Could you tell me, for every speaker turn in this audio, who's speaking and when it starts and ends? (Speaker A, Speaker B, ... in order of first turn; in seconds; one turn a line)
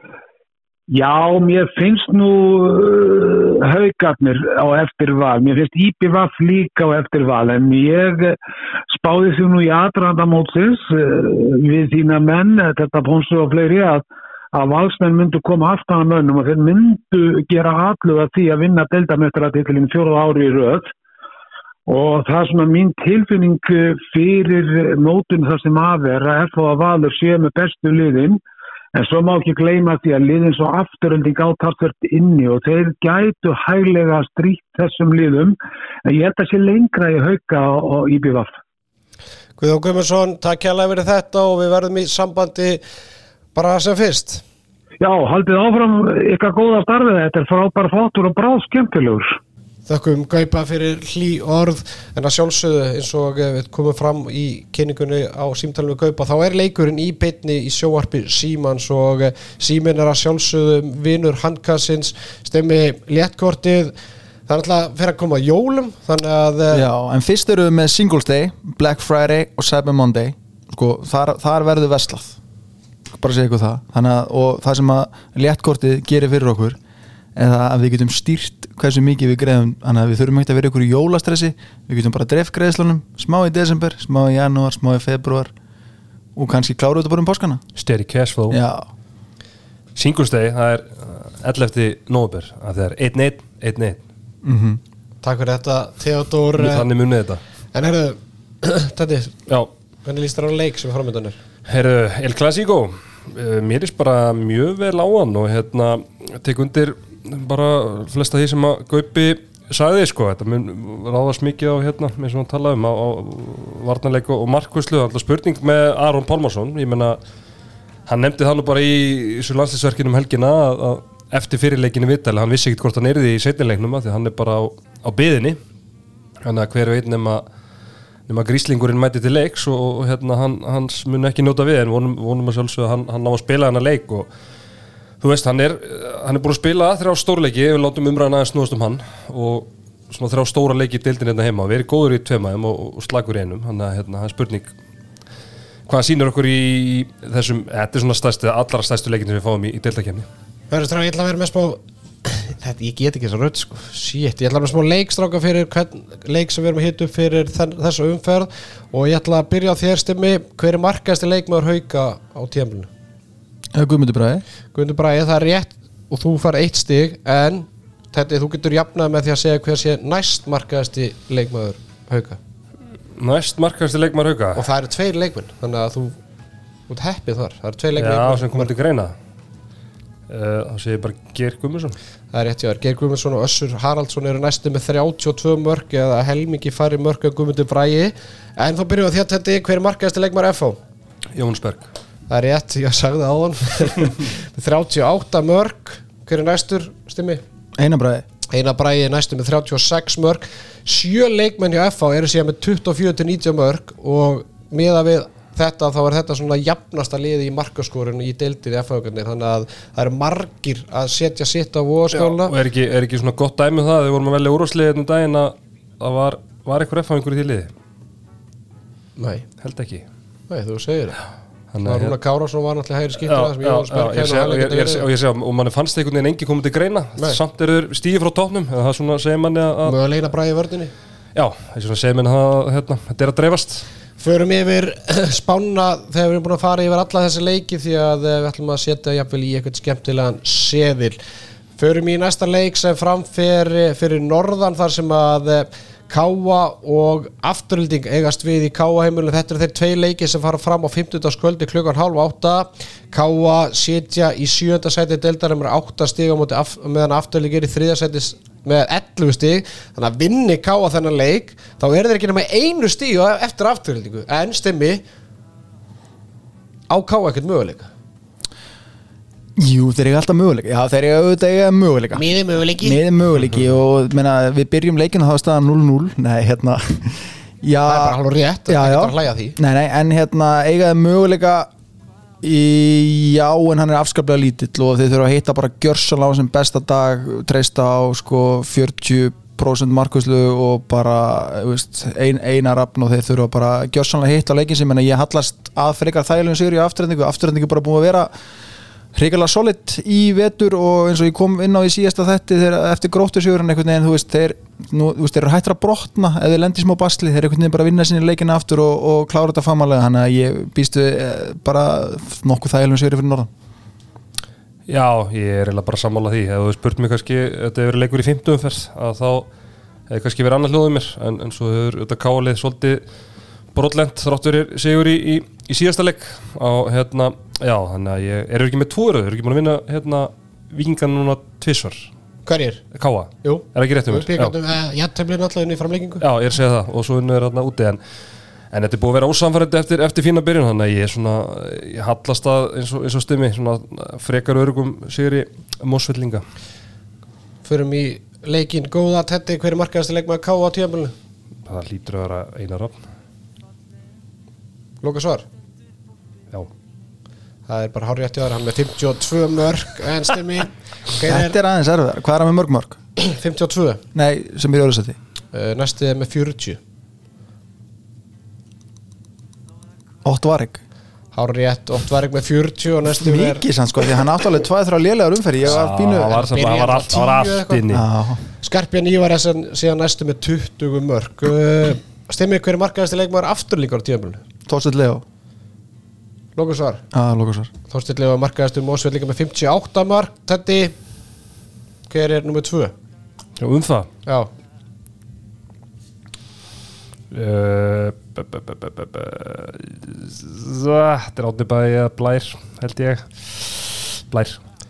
Speaker A: 0.9-8.4
Speaker A: 8.9-20.9
Speaker A: 21.9-28.4
Speaker A: 28.9-38.5
Speaker B: 39.6-42.8
Speaker B: 43.5-44.4
Speaker A: 45.0-49.4
Speaker B: 49.9-63.9
Speaker B: 64.5-66.9
Speaker C: 66.7-72.4
Speaker C: 73.1-76.8
Speaker C: 77.3-85.5
Speaker C: 86.3-87.6
Speaker D: 87.8-88.6
Speaker C: 88.5-88.9
Speaker D: 89.9-94.0
Speaker C: 94.4-94.8
Speaker B: 95.2-96.8
Speaker D: 96.6-97.4
Speaker B: 97.7-99.3
Speaker B: 100.0-101.4
Speaker D: 101.7-117.2
Speaker D: 118.1-125.6
Speaker D: 126.4-127.4
Speaker D: 128.3-134.3
Speaker D: 135.2-144.7
Speaker D: 145.9-150.3
Speaker B: 150.7-162.9
Speaker C: 163.7-164.4
Speaker B: 164.7-172.4
Speaker D: 173.2-174.6
Speaker B: 174.6-176.2
Speaker B: 176.9-178.7
Speaker D: 178.0-179.1
Speaker D: 180.3-182.0
Speaker B: 182.3-190.8
Speaker D: 191.3-191.9
Speaker B: 192.3-197.4
Speaker C: 197.8-198.2
Speaker B: 198.5-212.5
Speaker D: 212.2-217.7
Speaker B: 219.2-219.4
Speaker D: 219.6-220.0
Speaker B: 220.5-221.2
Speaker D: 221.7-222.2
Speaker B: 221.8-225.1
Speaker D: 223.2-229.9
Speaker B: 229.8-230.9
Speaker D: 231.3-233.8
Speaker B: 234.2-241.2
Speaker B: 241.8-265.0
Speaker B: 266.9-267.9
Speaker C: 269.6-272.2
Speaker B: 272.1-273.0
Speaker C: 272.8-281.7
Speaker B: 277.9-279.6
Speaker C: 282.4-298.3
Speaker C: 299.1-313.5
Speaker D: 314.9-319.5
Speaker D: 320.1-323.0
Speaker D: 323.7-332.1
Speaker B: 332.4-332.8
Speaker D: 332.9-334.5
Speaker B: 333.4-336.2
Speaker D: 336.2-338.0
Speaker D: 338.7-346.4
Speaker B: 347.6-351.1
Speaker D: 351.6-353.0
Speaker B: 355.0-355.4
Speaker B: 357.7-361.6
Speaker C: 361.2-363.0
Speaker B: 363.2-364.0
Speaker C: 364.1-365.1
Speaker B: 365.5-366.8
Speaker C: 370.2-370.8
Speaker B: 371.3-373.6
Speaker C: 373.1-376.4
Speaker D: 375.6-378.0
Speaker B: 376.3-377.8
Speaker C: 377.9-378.4
Speaker B: 378.6-384.4
Speaker C: 384.7-385.2
Speaker B: 386.6-387.0
Speaker C: 387.1-387.7
Speaker B: 387.9-390.9
Speaker B: 392.1-392.9
Speaker D: 393.6-394.1
Speaker D: 397.3-404.6